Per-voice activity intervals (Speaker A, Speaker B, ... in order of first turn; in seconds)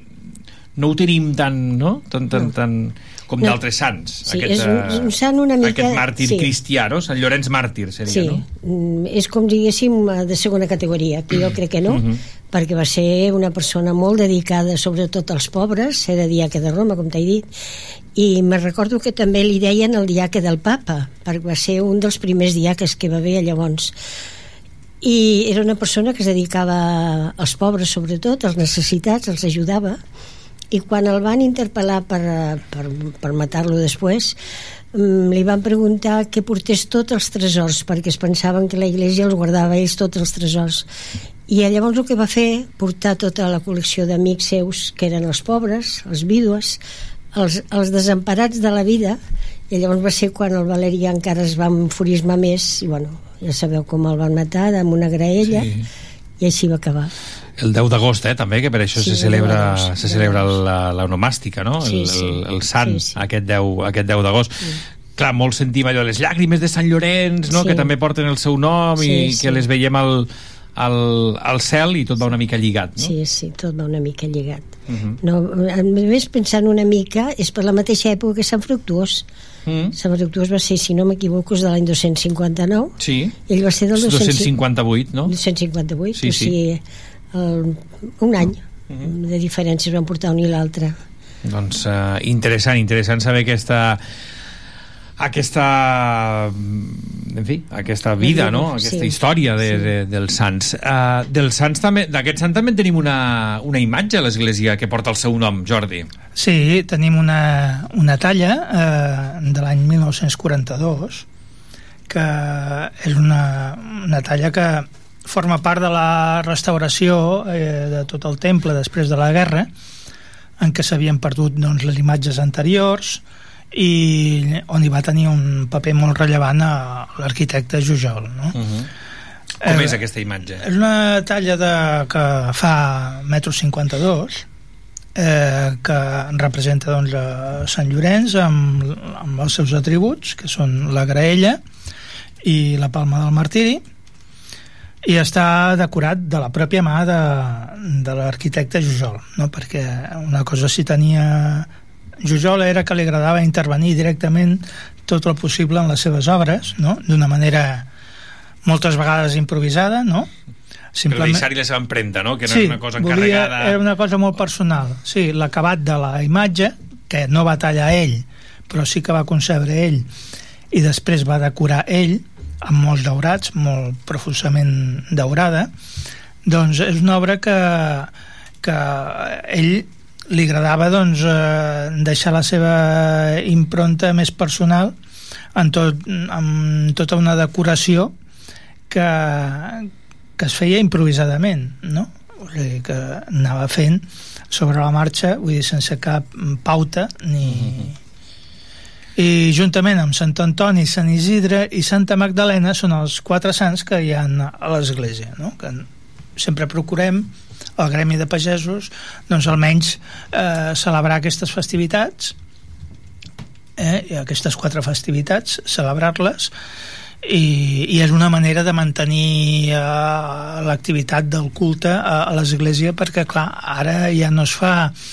Speaker A: 0.8-8.4, 11.9-12.2, 55.4-55.8, 57.6-64.7, 65.2-73.1, 74.9-75.2, 79.7-79.9, 83.0-83.3, 84.0-85.3, 86.1-86.5, 91.4-94.0, 95.2-106.1, 128.5-128.9, 129.6-130.6, 161.1-163.8, 197.4-197.9
Speaker B: 4.2-6.5, 8.1-17.4, 18.1-23.9, 25.0-30.0, 30.7-34.4, 34.9-40.9, 41.5-46.8, 47.3-49.2, 49.7-55.7, 56.4-57.1, 59.0-60.5, 61.8-63.1, 67.5-67.9, 69.0-69.6, 73.0-74.7, 75.2-79.2, 80.0-82.9, 83.5-84.5, 85.3-86.8, 87.3-90.9, 98.2-99.9
Speaker C: 106.3-111.2, 112.1-119.7, 120.6-123.2, 123.7-128.6, 129.6-130.0, 130.6-134.4, 135.2-141.6, 142.4-143.8, 145.0-151.7, 152.2-157.9, 158.6-160.3, 160.9-161.5, 162.4-170.1, 170.7-175.7, 176.4-178.1, 178.6-184.9, 185.5-188.1, 188.9-197.9, 199.2-212.3, 213.8-216.5, 217.2-224.9